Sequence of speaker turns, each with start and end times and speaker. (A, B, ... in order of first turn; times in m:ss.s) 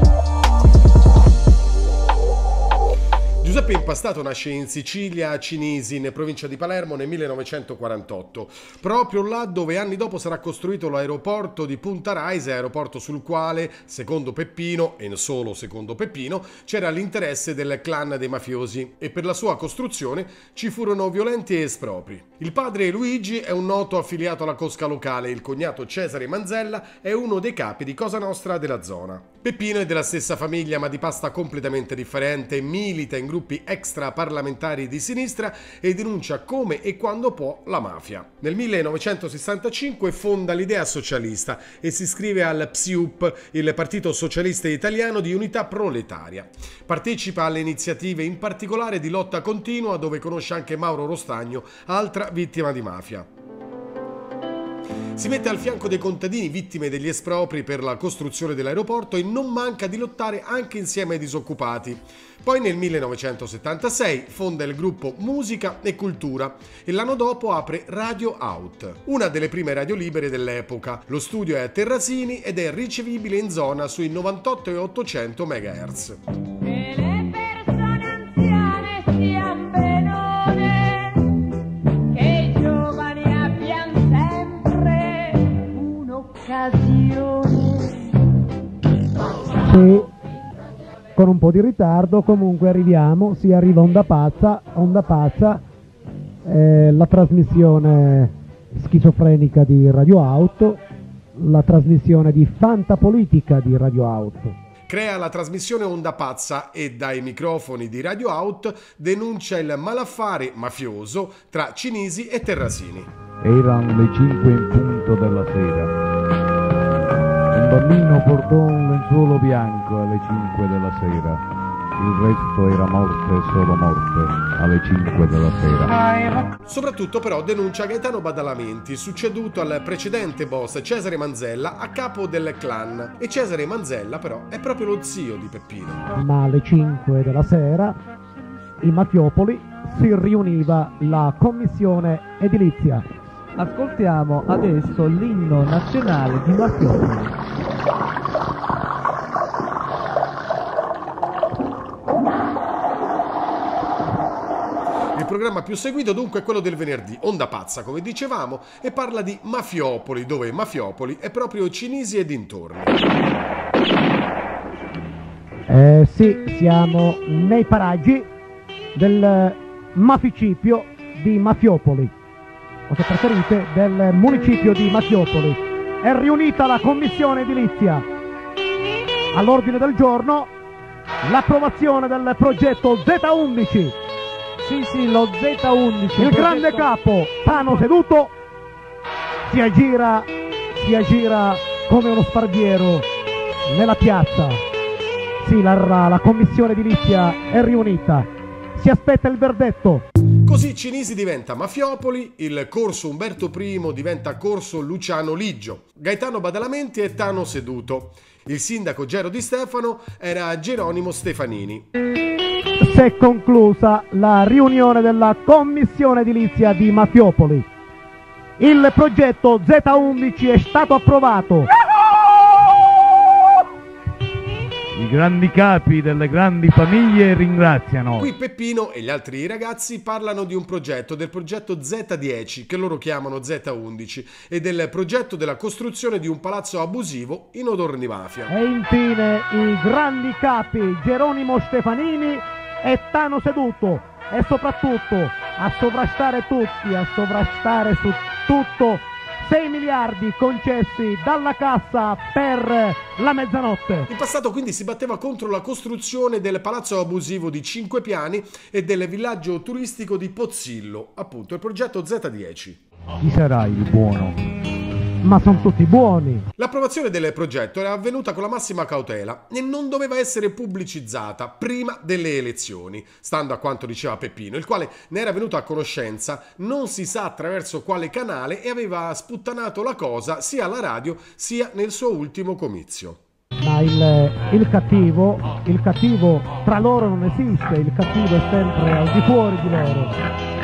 0:03.4-0:53.3 A
0:55.2-1:16.2 A
1:16.6-1:21.4 B
1:22.0-1:27.9 B
1:29.6-1:30.1 C
1:31.1-1:35.6 C
1:36.4-1:40.8 C
1:41.4-1:44.6 C
1:44.9-1:53.1 A
1:53.4-1:55.9 D
1:57.5-2:01.4 D
2:02.0-2:06.0 D
2:06.6-2:16.1 A
2:16.2-2:18.0 C
2:18.8-2:23.0 C
2:23.6-2:27.4 B
2:35.1-2:43.0 A
2:45.7-2:48.3 C
2:48.9-2:52.1 C
2:52.9-2:58.0 C
2:59.3-3:00.5 C
3:01.2-3:03.9 C
3:04.6-3:06.9 B
3:06.2-3:08.3 C
3:07.5-3:07.8 B
3:09.5-3:13.1 C
3:13.6-3:14.6 C
3:15.4-3:20.0 C
3:20.4-3:31.8 A
3:32.8-3:37.7 C
3:38.6-3:41.7 C
3:44.9-3:48.3 D
3:48.2-3:58.5 A
3:58.5-4:14.1 C
4:14.1-4:22.8 A
4:23.2-4:24.4 D
4:25.2-4:26.4 C
4:26.6-4:43.2 A
4:43.6-4:50.1 C